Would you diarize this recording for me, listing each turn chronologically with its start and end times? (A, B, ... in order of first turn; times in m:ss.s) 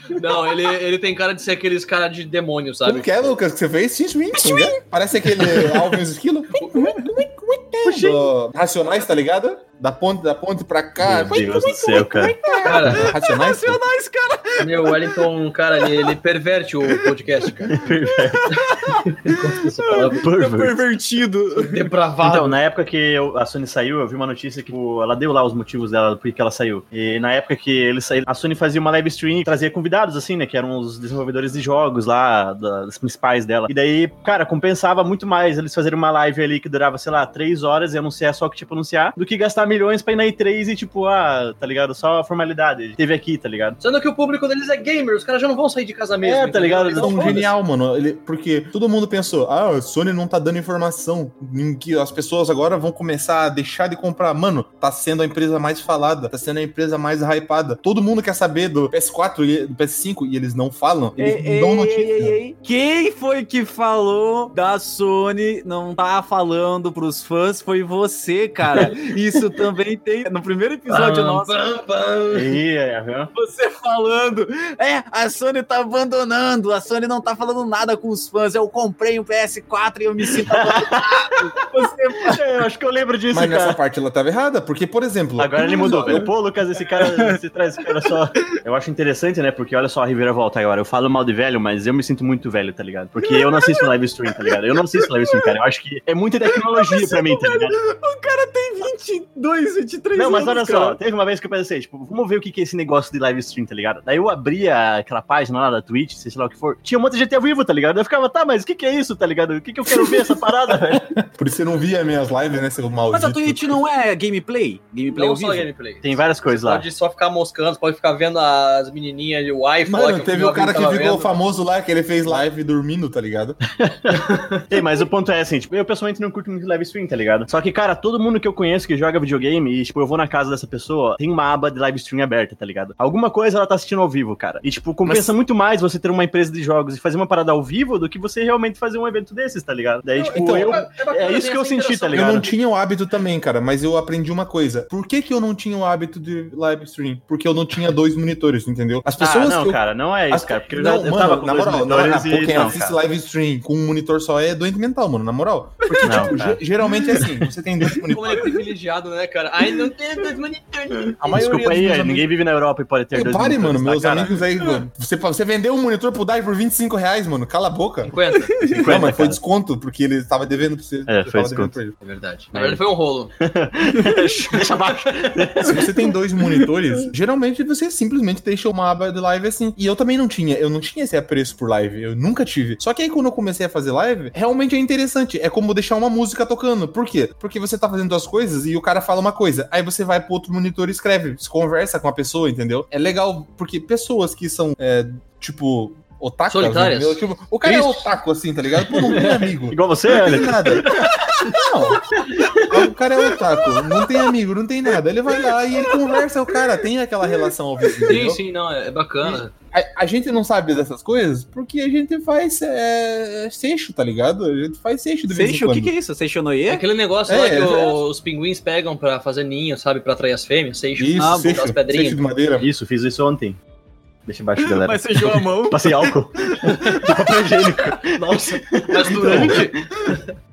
0:00.1-0:03.3 A
0:02.8-0:13.8 B
0:06.7-0:07.1 C
0:07.9-0:08.2 D
0:11.0-0:12.4 D
0:11.9-0:16.2 C
0:12.6-0:13.1 A
0:14.6-0:17.8 A
0:16.9-0:17.1 C
0:17.7-0:18.5 D
0:18.3-0:21.9 C
0:19.1-0:20.2 A
0:20.2-0:20.8 D
0:21.6-0:22.6 A
0:22.2-0:43.8 D
0:43.8-0:47.4 A
0:46.2-0:47.5 D
0:47.0-1:02.4 B
1:01.2-1:11.6 C
1:10.9-1:12.6 A
1:12.3-1:13.3 D
1:13.3-1:22.4 C
1:20.5-1:21.4 D
1:22.3-1:23.8 D
1:23.3-1:26.3 B
1:25.4-1:37.8 D
1:25.8-1:26.1 C
1:27.0-1:27.4 C
1:33.2-1:33.9 C
1:35.0-1:35.4 C
1:36.5-1:41.0 C
1:40.2-1:51.1 D
1:50.9-1:53.7 B
1:53.1-1:55.7 C
1:55.1-2:01.3 A
1:56.0-1:56.9 D
1:59.9-2:03.6 B
2:03.8-2:22.5 D
2:20.2-2:22.5 A
2:20.4-2:20.8 B
2:22.1-2:38.5 B
2:29.2-2:33.0 D
2:35.9-2:36.3 C
2:36.0-2:36.6 D
2:38.1-2:41.2 A
2:39.6-2:39.9 C
2:41.2-2:42.3 B
2:41.4-2:44.3 D
2:43.1-2:52.0 B
2:48.0-2:48.7 A
2:48.6-2:49.4 D
2:51.1-2:51.8 D
2:52.0-2:53.3 A
2:52.5-2:52.8 D
2:53.4-2:55.9 D
2:54.1-2:55.3 A
2:55.6-3:20.9 B
3:16.5-3:17.2 A
3:19.0-3:21.0 D
3:21.5-3:22.0 B
3:22.7-3:28.4 B
3:28.1-3:29.5 A
3:29.2-3:35.9 B
3:35.3-3:36.9 C
3:36.7-3:42.2 A
3:37.3-3:38.0 B
3:41.0-3:42.7 B
3:41.2-3:41.6 C
3:42.6-3:43.6 D
3:44.3-3:49.8 D
3:44.6-3:47.1 C
3:48.0-3:50.2 A
3:49.2-3:49.6 B